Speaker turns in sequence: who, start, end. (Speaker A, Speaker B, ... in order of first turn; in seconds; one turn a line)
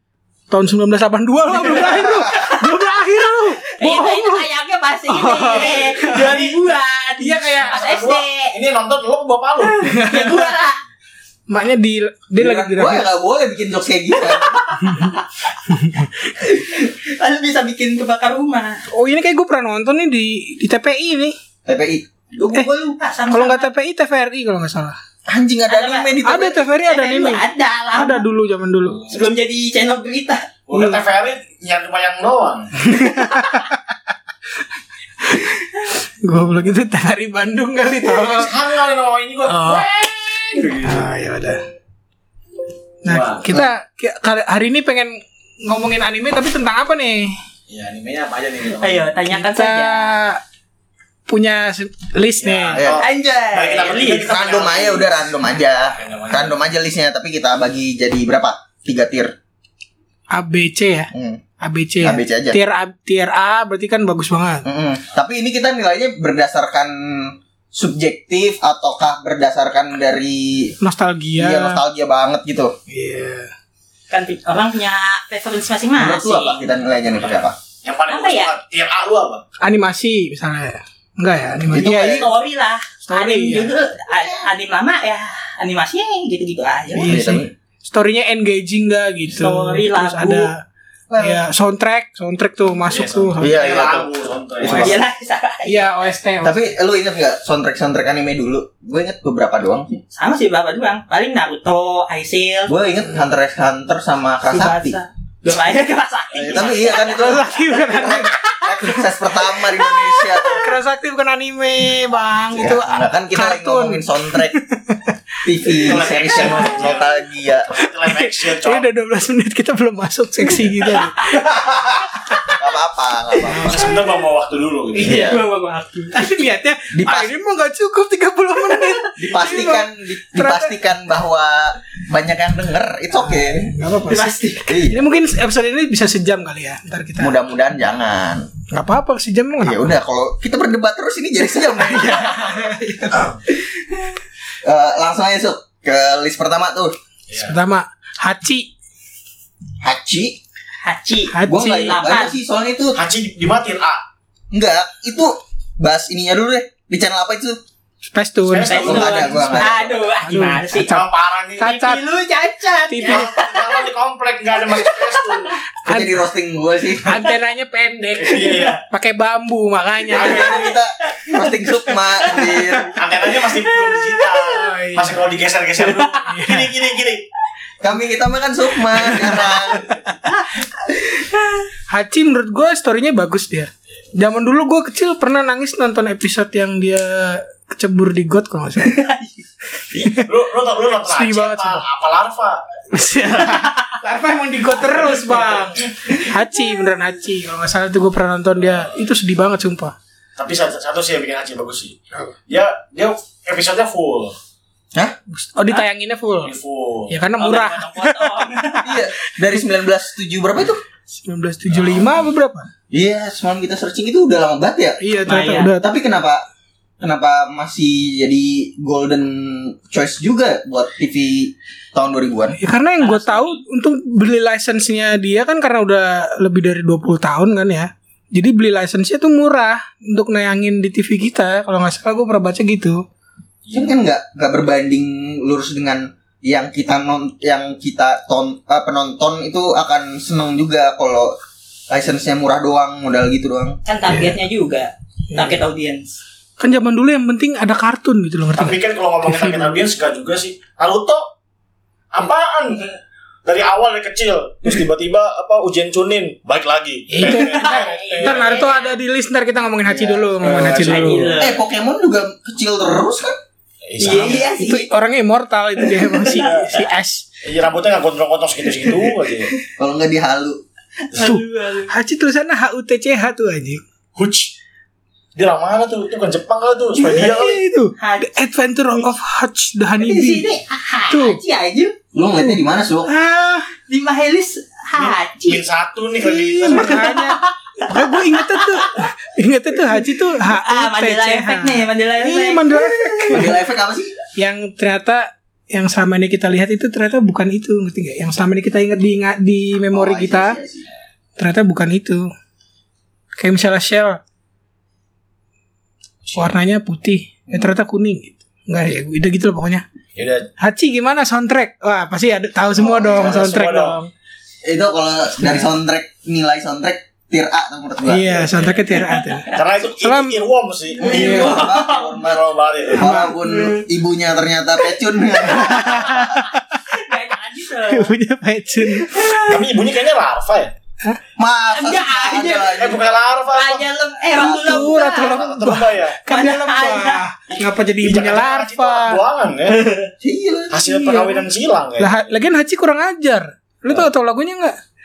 Speaker A: 0.5-4.5
Speaker B: 1.9-2.5
Speaker B: 3.6-8.6
Speaker A: 5.1-6.5
Speaker C: 6.0-6.5
Speaker A: 7.2-7.9
Speaker C: 7.7-9.9
Speaker A: 9.8-10.5
Speaker B: 10.0-10.8
Speaker A: 11.5-13.0
Speaker D: 12.3-14.6
Speaker B: 14.2-15.2
Speaker A: 15.7-16.1
Speaker B: 16.3-18.8
Speaker A: 18.9-21.3
Speaker D: 21.6-22.5
Speaker B: 22.4-23.7
Speaker A: 23.3-24.9
Speaker D: 25.3-26.6
Speaker B: 25.7-26.1
Speaker A: 26.2-29.1
Speaker B: 26.7-28.2
Speaker B: 29.0-30.5
Speaker C: 30.7-32.7
Speaker A: 30.7-31.0
Speaker A: 32.8-33.8
Speaker A: 35.2-35.6
Speaker A: 36.2-38.5
Speaker C: 38.1-41.0
Speaker A: 39.5-39.9
Speaker A: 40.8-41.6
Speaker A: 43.0-47.3
Speaker C: 43.1-43.5
Speaker C: 47.7-49.1
Speaker B: 48.8-50.1
Speaker A: 49.2-50.4
Speaker A: 51.3-52.8
Speaker C: 52.4-55.2
Speaker D: 52.7-53.1
Speaker B: 53.0-54.3
Speaker D: 54.2-59.3
Speaker C: 55.9-56.6
Speaker A: 60.3-64.7
Speaker D: 61.1-61.4
Speaker D: 62.0-62.6
Speaker D: 64.6-70.8
Speaker A: 70.8-71.8
Speaker D: 71.4-72.7
Speaker A: 72.9-73.5
Speaker B: 74.1-76.7
Speaker D: 76.0-77.5
Speaker C: 77.8-79.4
Speaker B: 78.1-78.5
Speaker A: 79.6-82.3
Speaker D: 81.7-82.3
Speaker B: 81.8-87.3
Speaker A: 83.0-83.7
Speaker D: 86.9-87.5
Speaker A: 87.0-90.6
Speaker B: 89.4-90.5
Speaker D: 91.1-91.4
Speaker A: 91.2-93.8
Speaker C: 92.8-95.0
Speaker D: 93.4-94.1
Speaker D: 94.6-95.0
Speaker B: 94.7-95.8
Speaker A: 95.6-96.6
Speaker D: 96.4-100.0
Speaker B: 100.1-102.7
Speaker D: 102.7-105.0
Speaker B: 104.5-107.3
Speaker D: 106.3-110.7
Speaker A: 107.1-109.0
Speaker B: 109.8-110.6
Speaker A: 110.6-115.2
Speaker D: 112.5-114.6
Speaker D: 115.4-117.7
Speaker C: 115.8-117.1
Speaker C: 117.7-118.9
Speaker A: 118.0-121.3
Speaker D: 122.6-123.9
Speaker A: 123.5-123.8
Speaker C: 123.6-125.4
Speaker B: 125.0-126.1
Speaker D: 125.1-125.4
Speaker A: 126.1-130.7
Speaker D: 126.9-127.3
Speaker D: 129.2-133.7
Speaker A: 133.2-137.4
Speaker B: 134.1-134.7
Speaker D: 134.7-135.0
Speaker D: 137.2-138.5
Speaker A: 138.7-139.8
Speaker D: 139.6-142.5
Speaker A: 141.8-143.4
Speaker D: 144.6-146.9
Speaker C: 147.3-147.5
Speaker A: 147.4-148.7
Speaker D: 149.8-150.4
Speaker B: 150.8-152.3
Speaker A: 151.3-151.9
Speaker D: 151.4-153.0
Speaker C: 152.9-154.0
Speaker D: 154.5-157.6
Speaker A: 158.1-158.9
Speaker C: 158.4-160.1
Speaker B: 158.6-160.9
Speaker D: 158.8-159.9
Speaker A: 160.2-161.1
Speaker C: 160.7-161.7
Speaker A: 161.6-162.0
Speaker B: 161.6-163.9
Speaker A: 162.9-163.3
Speaker C: 163.0-165.5
Speaker B: 164.6-165.5
Speaker A: 165.8-166.2
Speaker D: 165.8-167.2
Speaker A: 167.0-170.6
Speaker C: 168.2-168.8
Speaker C: 170.1-170.7
Speaker D: 170.1-173.0
Speaker B: 172.3-172.7
Speaker C: 172.9-177.2
Speaker B: 173.3-174.4
Speaker A: 174.5-175.2
Speaker B: 175.8-176.2
Speaker A: 176.2-176.7
Speaker D: 177.8-179.9
Speaker A: 179.3-180.2
Speaker B: 181.1-181.6
Speaker A: 181.9-189.1
Speaker B: 188.8-189.3
Speaker A: 189.9-190.3
Speaker C: 189.9-192.6
Speaker A: 191.1-191.8
Speaker A: 192.9-199.9
Speaker C: 194.8-196.3
Speaker C: 200.4-202.0
Speaker C: 202.5-204.3
Speaker A: 205.3-206.5
Speaker C: 206.4-207.2
Speaker A: 207.1-209.0
Speaker B: 207.4-209.0
Speaker D: 208.8-210.8
Speaker A: 211.2-212.7
Speaker C: 211.7-212.2
Speaker D: 212.9-216.4
Speaker A: 215.0-215.9
Speaker B: 215.3-215.7
Speaker D: 217.0-222.6
Speaker A: 222.6-233.0
Speaker B: 223.0-223.6
Speaker C: 233.6-233.9
Speaker D: 233.7-241.3
Speaker D: 241.9-243.8
Speaker B: 243.8-246.2
Speaker A: 245.3-245.6
Speaker A: 246.6-249.8
Speaker C: 248.5-251.3
Speaker C: 252.1-258.7
Speaker A: 257.1-261.4
Speaker B: 257.2-258.9
Speaker D: 259.9-260.5
Speaker C: 260.4-261.4
Speaker B: 260.8-261.6
Speaker D: 261.4-263.4
Speaker C: 263.9-264.5
Speaker B: 264.0-264.9
Speaker A: 264.1-267.3
Speaker B: 265.9-266.8
Speaker C: 267.4-269.5
Speaker B: 268.8-269.6
Speaker D: 269.8-270.6
Speaker B: 271.1-271.9
Speaker A: 271.2-273.8
Speaker C: 274.1-274.5
Speaker C: 275.3-277.6
Speaker A: 277.0-280.4
Speaker B: 278.0-278.3
Speaker B: 280.0-281.9
Speaker A: 281.1-281.4
Speaker D: 282.1-283.1
Speaker A: 283.1-283.7
Speaker B: 283.7-285.6
Speaker C: 285.0-287.2
Speaker A: 286.2-293.5
Speaker B: 286.5-288.9
Speaker B: 290.4-293.5
Speaker D: 293.3-294.1
Speaker A: 294.4-300.6
Speaker D: 299.9-300.9
Speaker A: 301.4-302.3
Speaker A: 303.4-304.2
Speaker C: 306.2-306.5
Speaker A: 306.3-309.8
Speaker C: 310.1-310.5
Speaker A: 310.6-314.1
Speaker D: 312.8-313.4
Speaker C: 312.8-314.0
Speaker D: 314.6-318.5
Speaker A: 318.1-320.4
Speaker C: 318.5-318.8
Speaker B: 319.0-319.5
Speaker C: 319.4-323.1
Speaker B: 321.0-322.1
Speaker D: 321.0-326.3
Speaker A: 321.1-321.6
Speaker A: 323.0-323.3
Speaker B: 323.4-323.8
Speaker A: 325.4-326.8
Speaker B: 326.9-328.1
Speaker A: 327.9-329.5
Speaker C: 329.2-330.7
Speaker D: 331.4-333.0
Speaker B: 331.7-332.8
Speaker C: 332.8-333.8
Speaker B: 333.5-335.4
Speaker D: 334.4-334.9
Speaker A: 334.4-339.2
Speaker C: 335.1-336.2
Speaker B: 336.3-337.2
Speaker C: 337.5-339.9
Speaker B: 339.7-340.1
Speaker D: 340.2-340.7
Speaker C: 340.7-342.3
Speaker A: 340.9-341.4
Speaker A: 342.0-344.8